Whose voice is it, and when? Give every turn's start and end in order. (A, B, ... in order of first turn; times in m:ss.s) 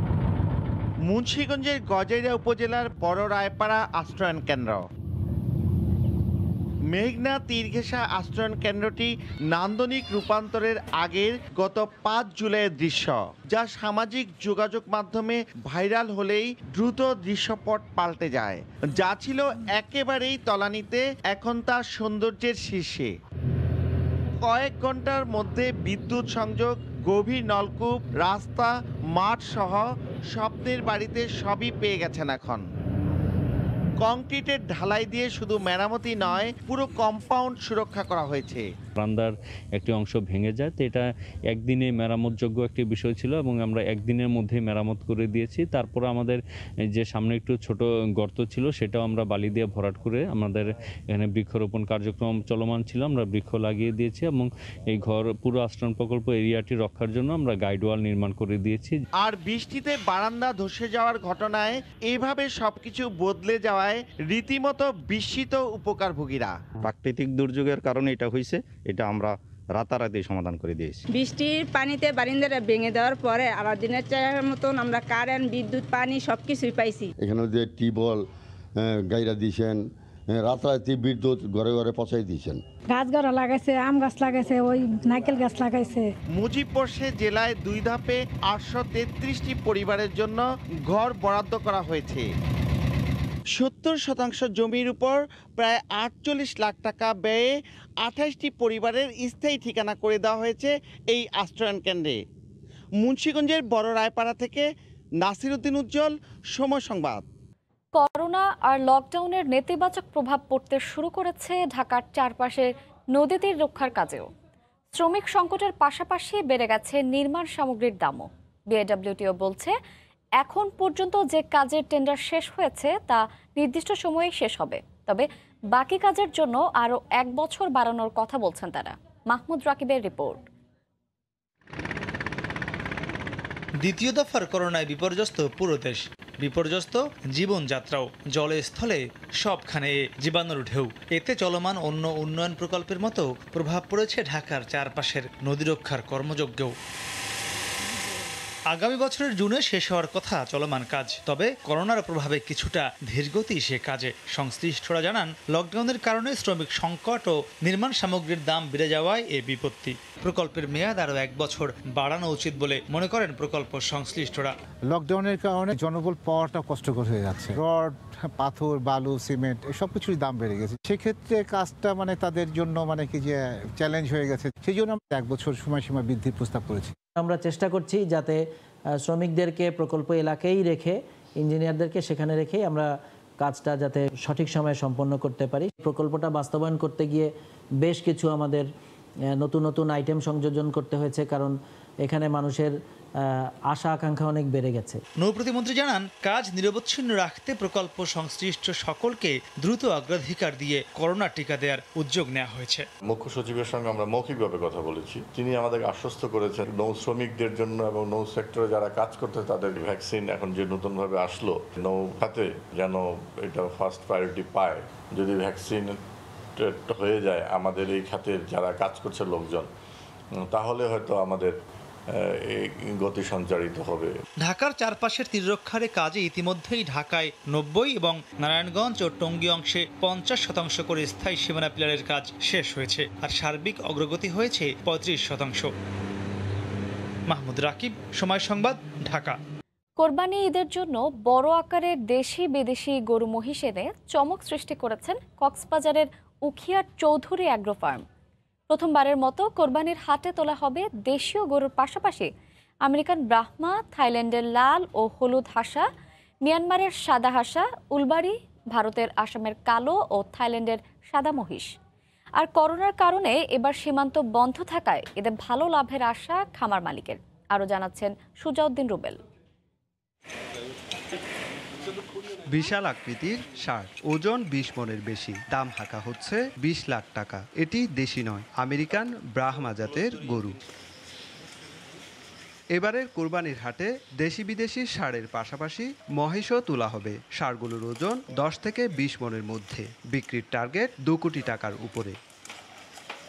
0:01.1-0:04.8 A
0:06.9-0:23.1 A
0:24.4-0:32.6 A
0:34.0-0:38.7 A
0:39.0-0:59.0 B
0:59.2-1:06.6 A
1:06.8-1:11.0 C
1:11.1-1:17.1 D
1:17.2-1:18.2 E
1:18.8-1:22.6 E
1:22.9-1:26.1 F
1:26.4-1:32.3 A
1:33.6-1:37.5 A
1:38.0-1:42.2 A
1:43.0-1:44.7 A
1:45.2-1:47.2 A
1:47.9-1:54.3 G
1:54.9-1:59.7 G
2:00.4-2:10.4 G
2:13.8-2:26.8 H
2:28.7-2:44.5 H
2:44.9-2:56.9 I
2:57.2-2:58.4 J
2:59.0-3:08.7 J
3:09.4-3:12.7 J
3:13.3-3:15.0 J
3:15.2-3:22.9 H
3:23.0-3:36.0 K
3:36.6-3:39.7 K
3:40.4-3:41.5 K
3:42.1-3:44.1 K
3:44.4-3:55.7 H
3:57.3-3:59.4 H
4:00.0-4:08.0 G
4:08.7-4:12.3 G
4:12.8-4:15.8 G
4:16.4-4:21.7 G
4:22.4-4:29.2 G
4:32.4-4:40.6 L
4:42.7-4:52.2 L